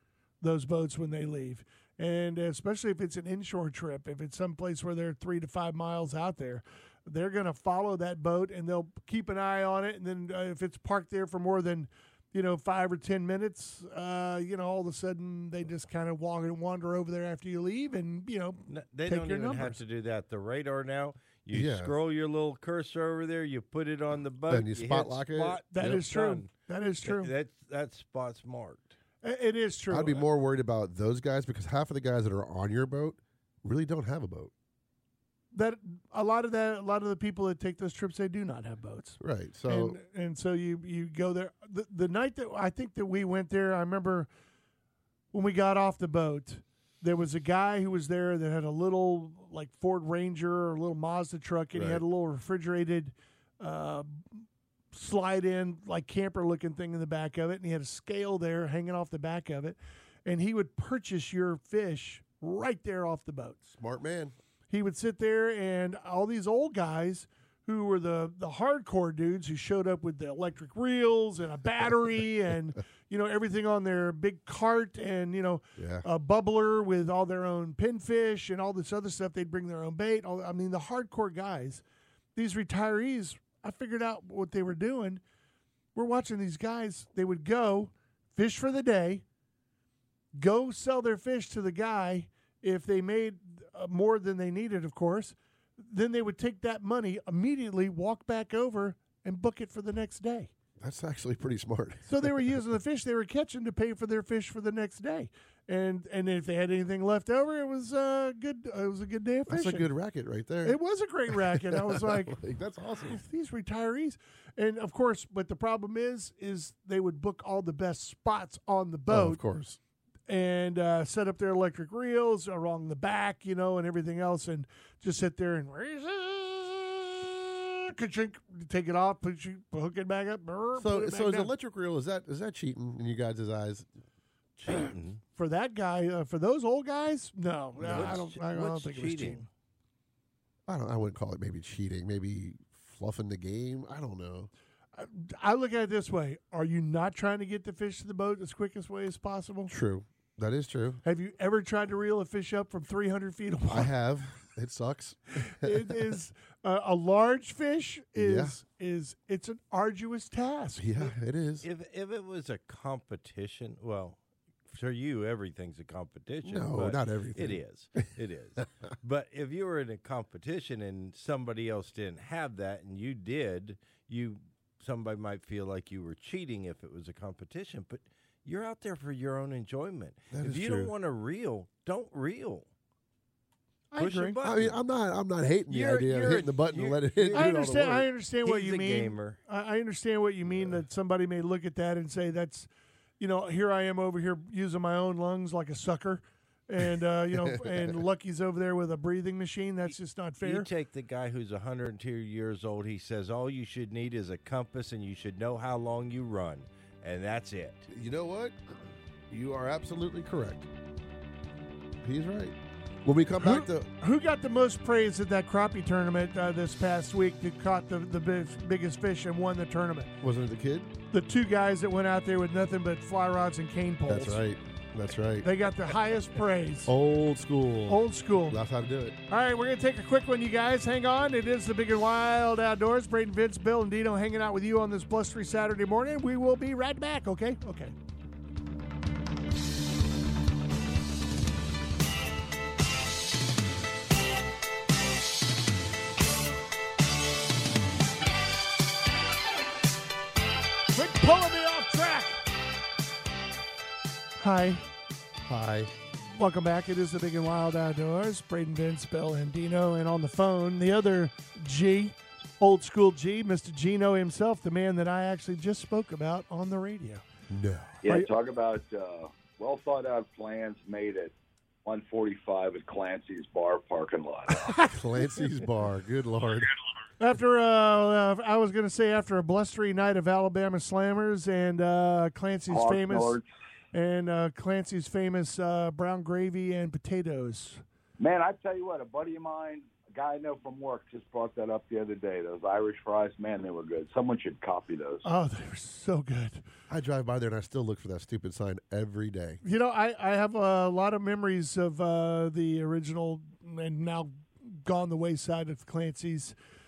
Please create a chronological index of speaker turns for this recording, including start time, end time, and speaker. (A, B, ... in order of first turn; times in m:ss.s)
0:00.4-0:19.8 A
0:18.7-0:26.5 B
0:21.5-0:21.9 C
0:24.5-0:26.0 C
0:25.7-0:27.3 A
0:27.0-0:28.9 B
0:29.2-0:30.2 A
0:29.9-0:34.5 C
0:35.5-0:44.3 A
0:39.2-0:40.0 C
0:45.3-1:03.7 A
0:51.7-0:52.0 C
1:03.7-1:04.3 C
1:04.7-1:21.8 A
1:15.8-1:16.1 C
1:22.4-1:25.2 A
1:25.9-1:29.2 A
1:30.3-1:40.5 A
1:40.8-1:42.3 C
1:42.0-1:49.9 A
1:49.5-1:50.8 C
1:50.6-1:52.4 A
1:51.3-1:53.2 C
1:53.0-1:59.4 A
1:59.1-1:59.8 C
2:00.3-2:11.5 A
2:10.8-2:13.9 C
2:14.6-2:15.2 B
2:15.3-2:19.4 A
2:17.8-2:19.4 B
2:17.8-2:18.2 C
2:20.7-2:24.5 C
2:25.0-2:29.7 A
2:29.7-2:31.0 C
2:31.0-2:33.9 A
2:33.7-2:36.1 C
2:35.4-2:41.1 A
2:38.2-2:38.6 C
2:40.8-2:41.7 C
2:41.6-3:02.7 B
2:46.4-2:48.1 C
3:00.3-3:00.9 C
3:03.9-3:04.4 A
3:04.0-3:04.8 B
3:04.4-3:08.1 C
3:05.7-3:07.6 B
3:07.3-3:20.7 A
3:08.4-3:09.4 B
3:17.4-3:17.9 C
3:20.4-3:27.9 B
3:27.9-3:28.6 C
3:29.3-3:30.7 C
3:32.0-3:33.9 C
3:33.4-3:40.1 A
3:40.2-3:40.9 C
3:41.1-3:44.4 A
3:44.1-3:45.5 C
3:45.4-3:46.9 A
3:46.8-3:49.2 C
3:47.9-3:48.6 A
3:49.3-3:57.9 A
4:10.9-4:12.4 A
4:14.4-4:14.8 A
4:15.4-4:15.9 C
4:16.3-4:27.2 A
4:27.5-4:28.0 C
4:28.0-4:31.3 D
4:31.8-4:34.7 D
4:34.5-4:35.3 A
4:34.9-4:36.7 C
4:37.2-4:43.4 A
4:42.7-4:43.4 D
4:43.9-4:47.8 A
4:48.2-4:55.3 D
4:55.2-4:56.6 A
4:56.9-4:59.6 C
4:59.6-5:06.5 A